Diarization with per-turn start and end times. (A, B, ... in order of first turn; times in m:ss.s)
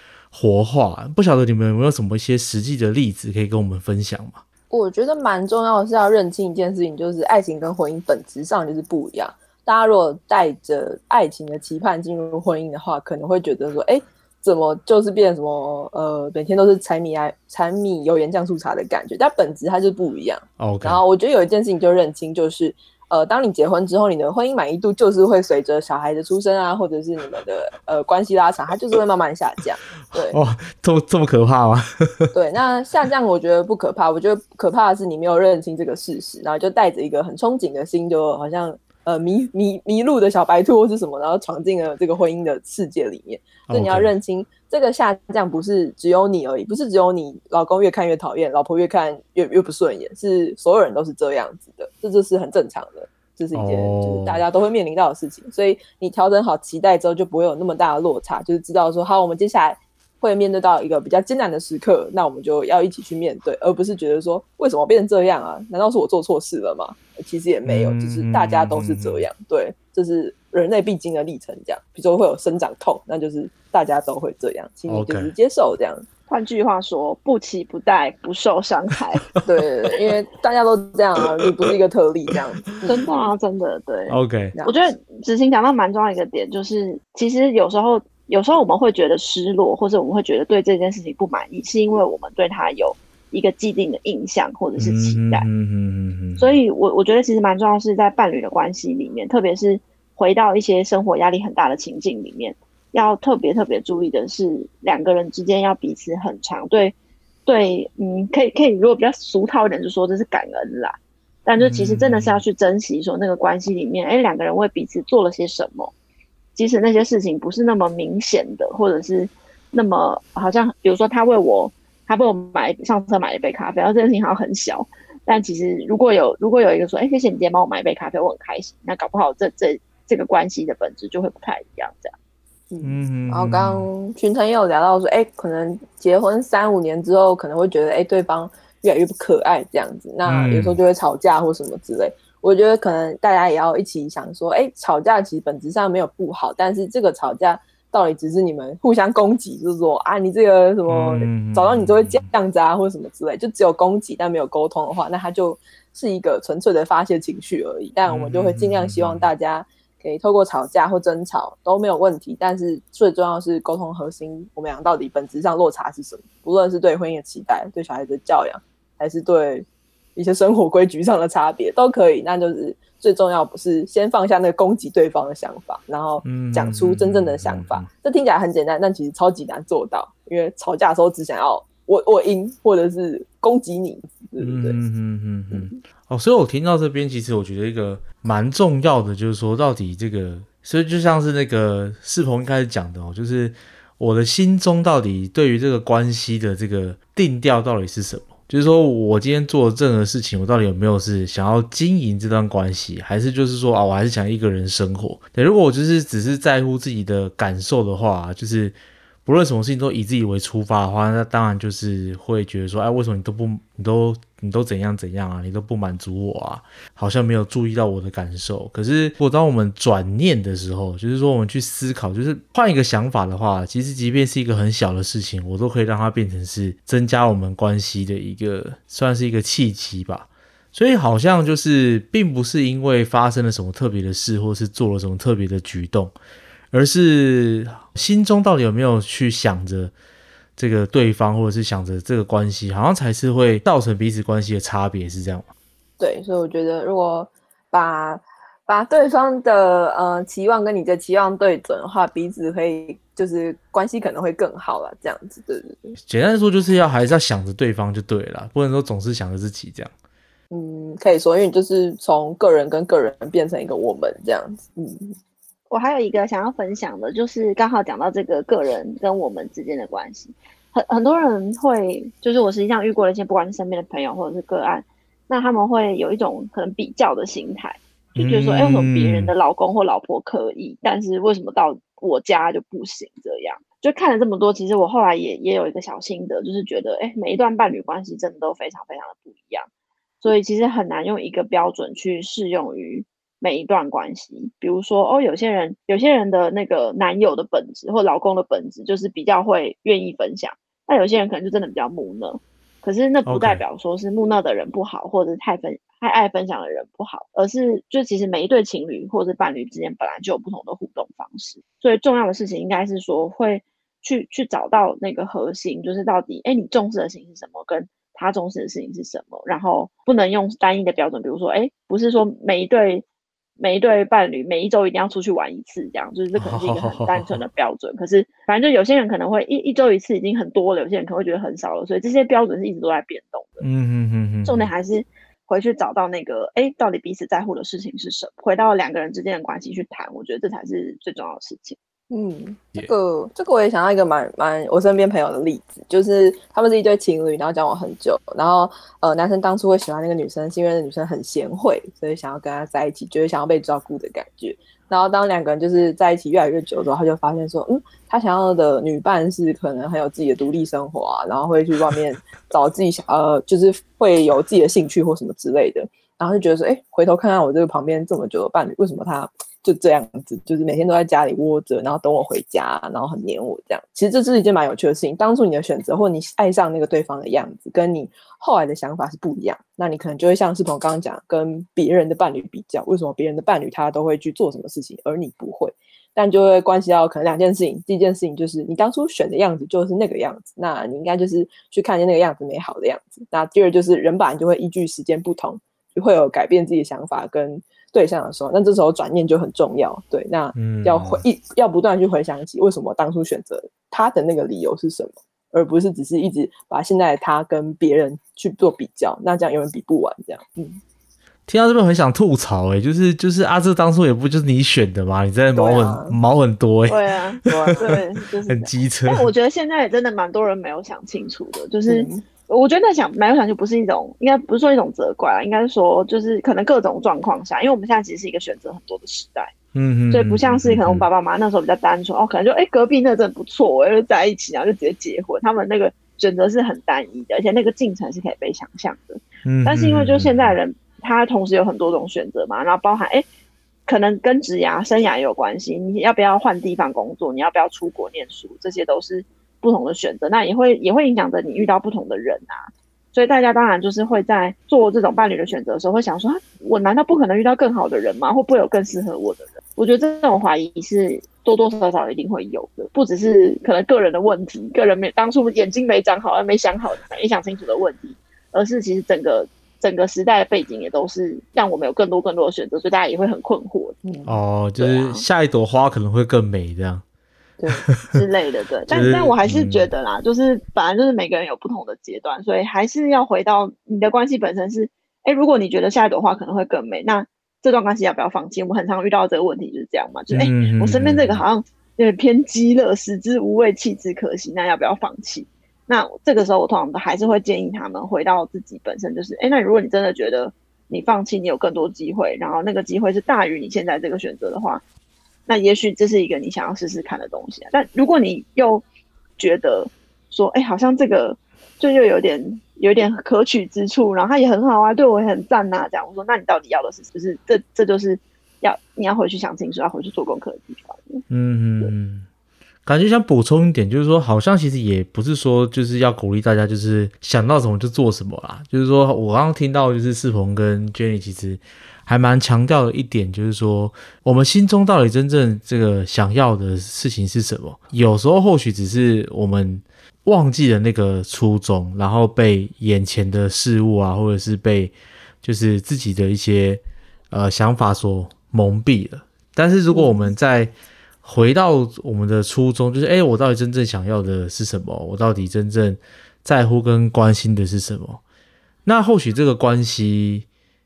0:00.3-0:04.4 A
0:04.7-0:30.4 B
0:20.6-0:21.0 A
0:30.1-0:32.3 A
0:32.3-1:16.0 B
0:43.7-0:44.1 A
0:53.5-0:54.4 A
1:07.6-1:09.2 A
1:14.9-1:15.3 A
1:16.3-1:19.3 C
1:19.4-1:23.0 B
1:22.9-1:35.4 C
1:24.1-1:24.5 A
1:34.8-1:36.5 A
1:36.4-1:46.9 C
1:47.4-1:50.9 C
1:51.4-1:55.9 C
1:51.6-1:52.4 A
1:56.6-2:12.1 C
2:12.7-3:04.8 B
2:12.8-2:13.9 A
2:20.2-2:20.8 A
2:30.9-2:32.2 A
2:38.0-2:39.3 A
2:56.2-2:57.9 A
3:04.4-3:56.1 A
3:05.5-3:05.8 B
3:56.7-3:59.9 A
4:00.6-4:05.5 A
4:06.0-4:15.9 B
4:16.0-4:19.9 A
4:20.5-4:25.2 B
4:25.7-4:49.7 C
4:38.2-4:39.3 A
4:50.2-5:23.0 C
5:03.2-5:03.6 A
5:23.6-5:33.6 C
5:26.4-5:27.4 A
5:33.6-5:34.7 A
5:34.4-5:41.8 C
5:42.1-6:50.8 B
6:40.5-6:41.2 A
6:51.5-6:59.3 A
6:55.5-6:56.2 B
6:56.9-7:09.5 C
6:57.5-6:57.9 B
7:01.9-7:02.2 B
7:09.7-7:11.1 A
7:10.1-7:23.2 C
7:19.4-7:20.6 A
7:23.9-7:54.0 C
7:54.0-7:54.3 B
7:54.2-7:57.0 A
7:54.8-7:55.2 C
7:57.6-7:57.8 B
7:57.7-7:58.1 A
7:58.1-8:24.8 C
7:58.9-7:59.9 A
8:10.3-8:11.4 A
8:25.5-8:28.8 C
8:29.4-8:41.2 C
8:41.3-8:42.3 A
8:42.8-9:10.7 A
9:09.9-9:10.3 B
9:11.2-9:18.2 A
9:18.8-9:20.4 A